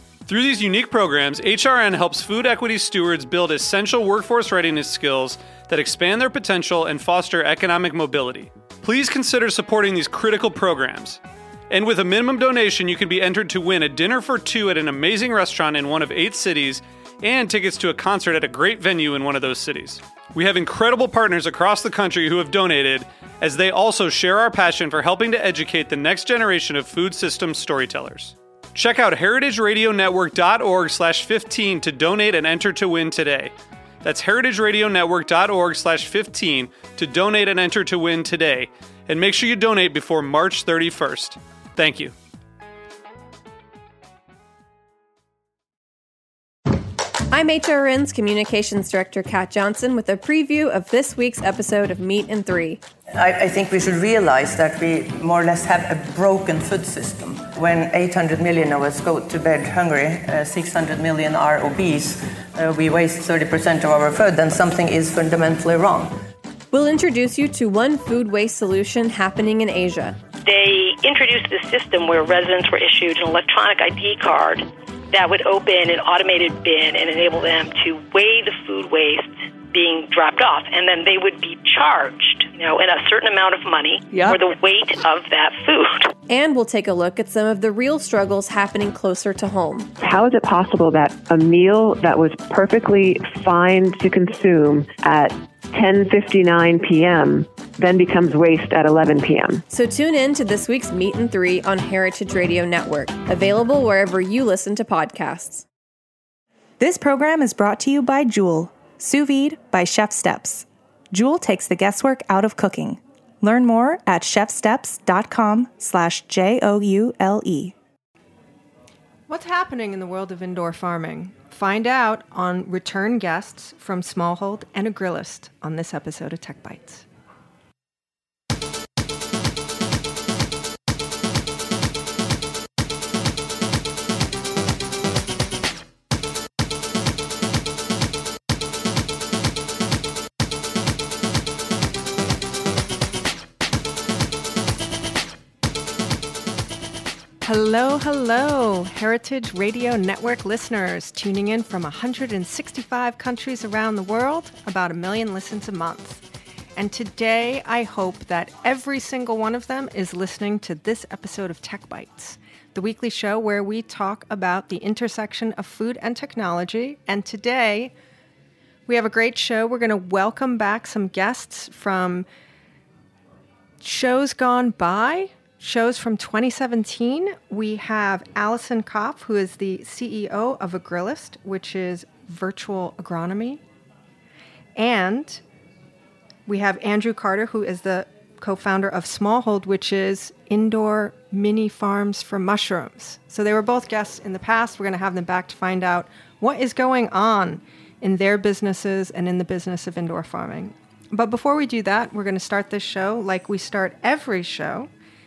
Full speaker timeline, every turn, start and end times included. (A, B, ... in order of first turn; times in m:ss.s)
0:00.3-0:42.1 A
0:47.3-0:52.8 B
0:53.1-1:06.2 C
1:06.7-1:10.2 B
1:10.4-1:26.1 D
1:26.3-1:29.9 B
1:30.0-1:39.6 E
1:39.7-1:45.6 B
1:46.8-1:57.7 F
1:59.3-2:07.0 G
2:27.4-2:36.2 G
2:36.8-2:47.9 G
2:48.9-2:52.3 G
2:53.8-3:03.6 G
3:04.8-3:05.4 G
3:06.4-3:24.9 G